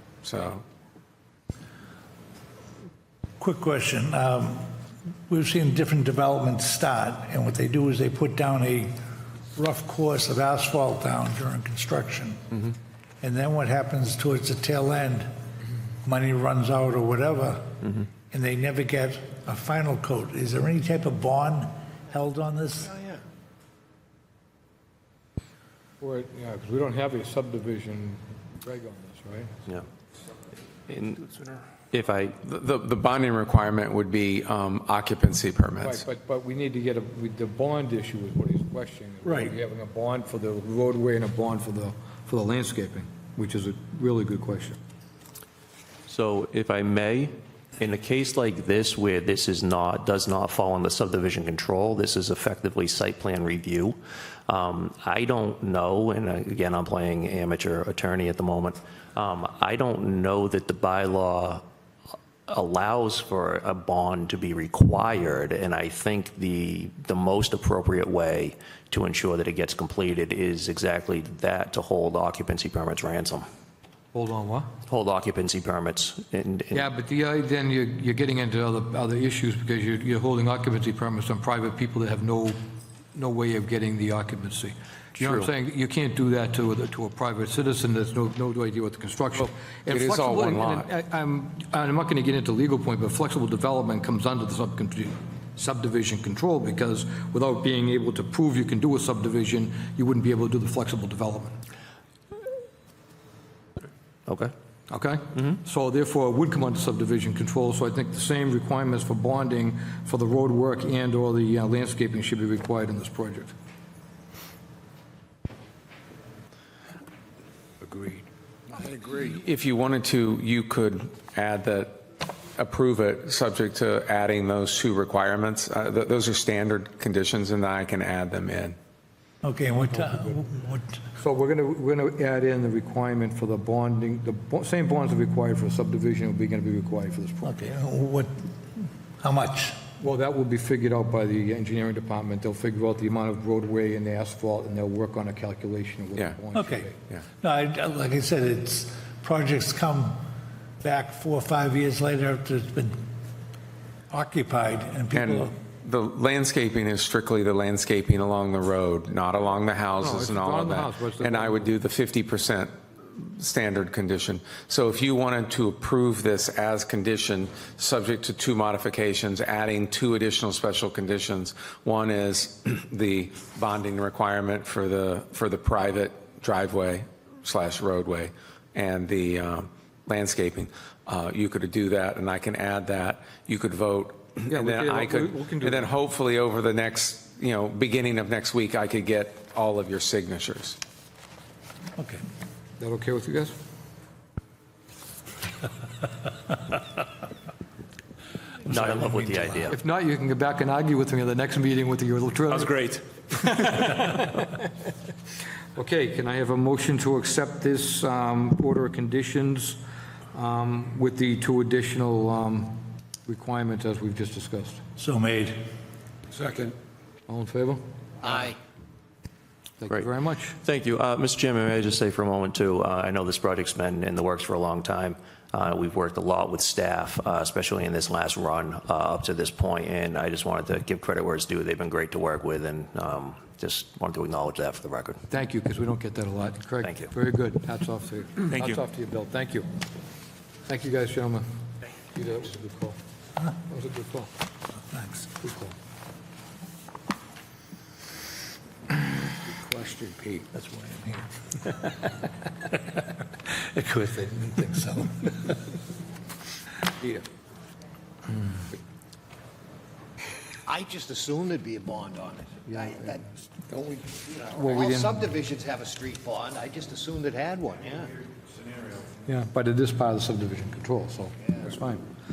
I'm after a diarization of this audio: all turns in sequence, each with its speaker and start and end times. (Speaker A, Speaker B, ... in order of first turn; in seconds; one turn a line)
Speaker A: 0.2-0.6
Speaker B: 3.4-4.7
Speaker B: 5.3-8.9
Speaker B: 9.6-12.6
Speaker B: 13.2-15.3
Speaker B: 16.0-23.0
Speaker C: 26.0-29.5
Speaker D: 30.9-32.4
Speaker A: 32.4-36.0
Speaker C: 35.8-44.8
Speaker D: 46.1-54.0
Speaker D: 54.5-61.6
Speaker D: 62.5-73.5
Speaker C: 74.1-74.7
Speaker D: 74.9-76.9
Speaker C: 76.7-82.6
Speaker C: 83.1-101.6
Speaker D: 85.2-85.5
Speaker A: 89.9-90.9
Speaker D: 104.3-104.5
Speaker C: 104.9-113.5
Speaker E: 117.9-118.2
Speaker E: 118.7-119.3
Speaker A: 119.2-122.0
Speaker A: 122.6-128.8
Speaker B: 129.4-131.0
Speaker C: 130.0-130.3
Speaker C: 131.2-137.5
Speaker B: 137.4-138.5
Speaker B: 139.2-139.8
Speaker C: 140.0-146.9
Speaker B: 146.5-146.9
Speaker B: 147.4-150.2
Speaker B: 150.8-153.0
Speaker B: 154.1-155.5
Speaker A: 155.1-190.8
Speaker C: 160.0-161.8
Speaker C: 184.5-185.9
Speaker C: 192.8-193.6
Speaker D: 198.7-199.8
Speaker B: 198.7-199.7
Speaker C: 199.7-204.7
Speaker C: 205.8-209.8
Speaker C: 210.3-214.8
Speaker B: 215.0-215.6
Speaker C: 217.3-218.3
Speaker E: 218.2-218.5
Speaker C: 219.8-220.6
Speaker D: 220.6-235.2
Speaker C: 235.3-239.7
Speaker D: 236.8-237.1
Speaker C: 240.7-241.4
Speaker C: 242.1-243.0
Speaker C: 243.6-244.3
Speaker B: 244.9-245.3
Speaker C: 245.4-245.7
Speaker B: 249.5-251.8
Speaker B: 253.0-255.5
Speaker E: 260.7-263.2
Speaker C: 262.7-263.2
Speaker C: 263.7-265.3
Speaker E: 264.4-268.2
Speaker C: 269.2-272.0